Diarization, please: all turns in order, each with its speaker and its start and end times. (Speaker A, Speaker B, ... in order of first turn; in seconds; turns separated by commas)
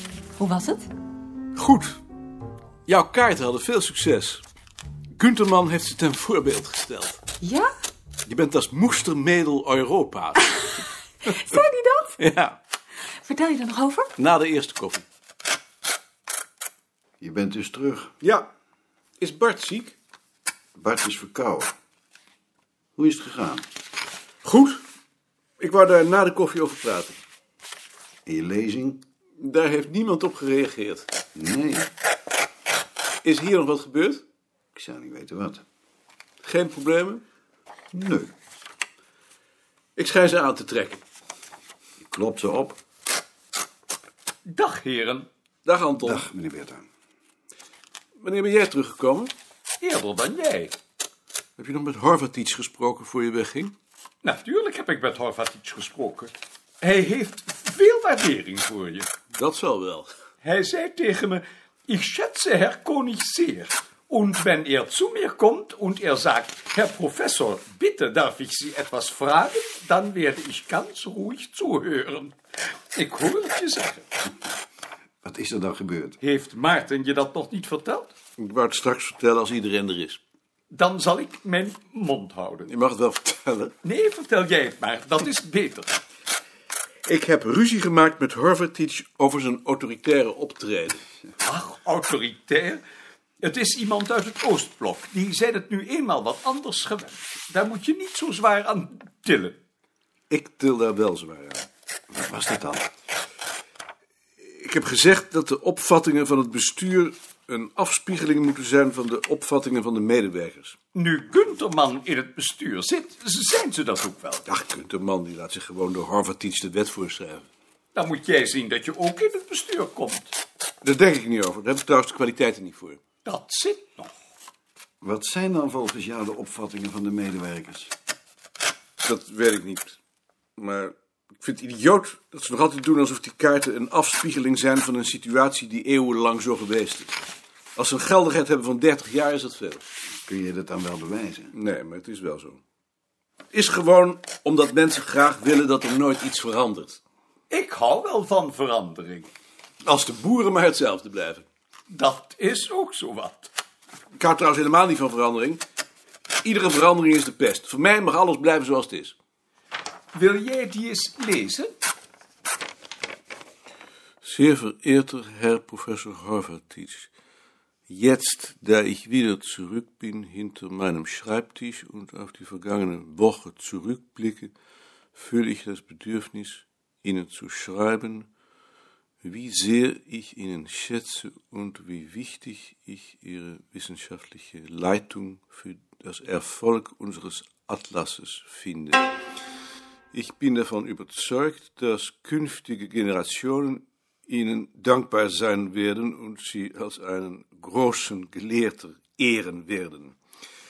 Speaker A: 0.4-0.9, Speaker B: 1.5-2.0, Speaker B: 2.9-4.4, Speaker B: 5.1-7.2, Speaker A: 7.4-7.7, Speaker B: 8.2-10.5, Speaker A: 11.4-12.2, Speaker B: 12.2-12.6, Speaker A: 13.2-14.1, Speaker B: 14.2-15.1, Speaker C: 17.2-18.1, Speaker B: 18.2-18.5, Speaker B: 19.2-20.0, Speaker C: 20.8-21.7, Speaker C: 23.0-23.6, Speaker B: 24.4-24.8, Speaker B: 25.6-27.2, Speaker C: 28.2-29.0, Speaker B: 29.4-31.1, Speaker C: 31.3-31.9, Speaker B: 33.2-34.2, Speaker C: 34.8-35.6, Speaker B: 36.4-37.2, Speaker C: 37.9-38.3, Speaker B: 40.0-41.0, Speaker C: 42.0-42.8, Speaker D: 44.5-45.3, Speaker B: 45.7-46.3, Speaker C: 46.0-46.9, Speaker B: 48.2-49.3, Speaker D: 49.8-50.7, Speaker B: 51.6-53.8, Speaker D: 54.2-59.1, Speaker B: 59.3-60.1, Speaker D: 60.4-72.3, Speaker D: 72.9-74.1, Speaker C: 75.2-76.2, Speaker D: 76.2-78.1, Speaker B: 78.4-80.2, Speaker D: 80.7-82.7, Speaker B: 82.7-83.7, Speaker D: 83.8-86.0, Speaker B: 87.1-91.0, Speaker D: 91.4-92.8, Speaker D: 93.4-99.6, Speaker B: 100.3-101.7, Speaker C: 102.1-102.9, Speaker B: 104.4-110.8, Speaker D: 110.9-114.5, Speaker B: 114.5-117.5, Speaker D: 117.9-120.3, Speaker B: 120.8-123.0, Speaker D: 123.2-124.1, Speaker C: 125.0-127.9, Speaker B: 129.0-130.0, Speaker B: 130.6-137.2, Speaker B: 137.8-139.8, Speaker C: 140.2-141.5, Speaker B: 141.5-142.6, Speaker B: 143.5-147.0, Speaker D: 147.5-149.3, Speaker B: 149.8-151.5, Speaker D: 151.9-153.5, Speaker B: 154.2-155.6, Speaker B: 156.4-159.2, Speaker D: 160.1-161.7, Speaker B: 164.2-167.1, Speaker B: 167.9-174.5, Speaker B: 175.2-178.3, Speaker B: 179.2-189.1, Speaker B: 190.1-200.2